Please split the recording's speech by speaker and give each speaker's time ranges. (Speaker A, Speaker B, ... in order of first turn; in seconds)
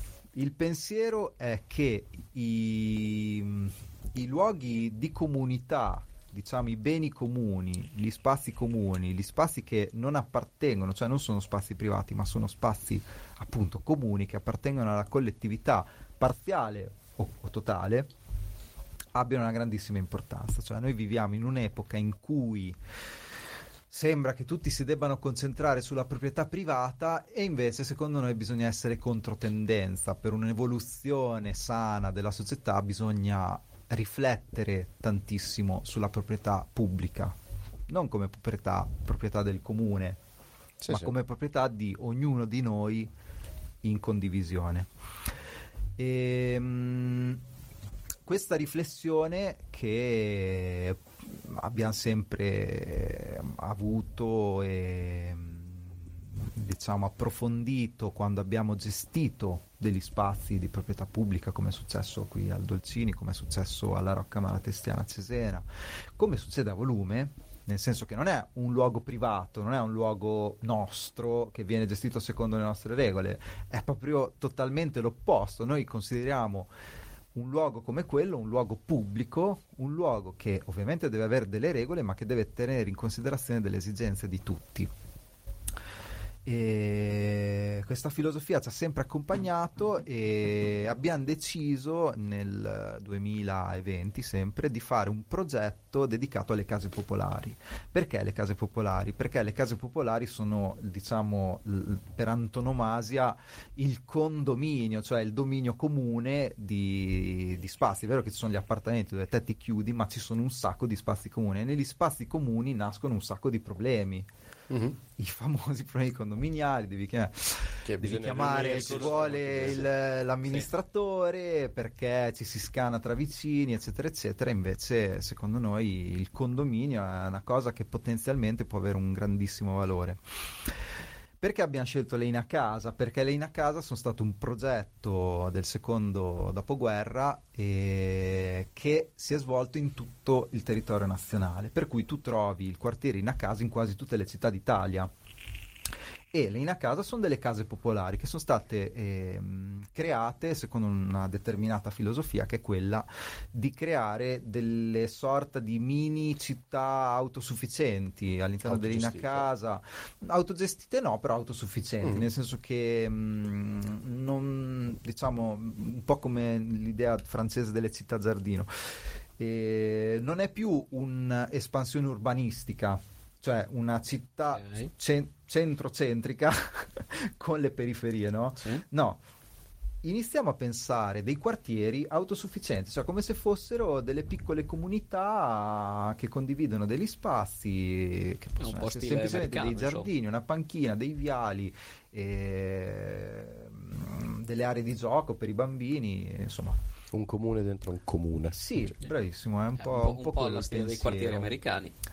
Speaker A: 0.3-18.1, 19.1-22.8, 23.9-37.4, 37.9-40.2, 40.9-43.1, 43.8-44.9, 46.0-47.4, 48.2-76.7, 77.3-84.9, 86.4-114.3, 115.2-130.2, 131.4-145.1, 146.3-168.7, 169.4-179.2, 180.0-196.8, 198.5-201.5
Speaker B: 40.8-41.1, 114.7-115.0, 117.8-119.9, 158.6-159.5, 197.1-198.6
Speaker C: 118.4-119.6, 174.5-174.9, 188.6-190.1, 199.8-201.9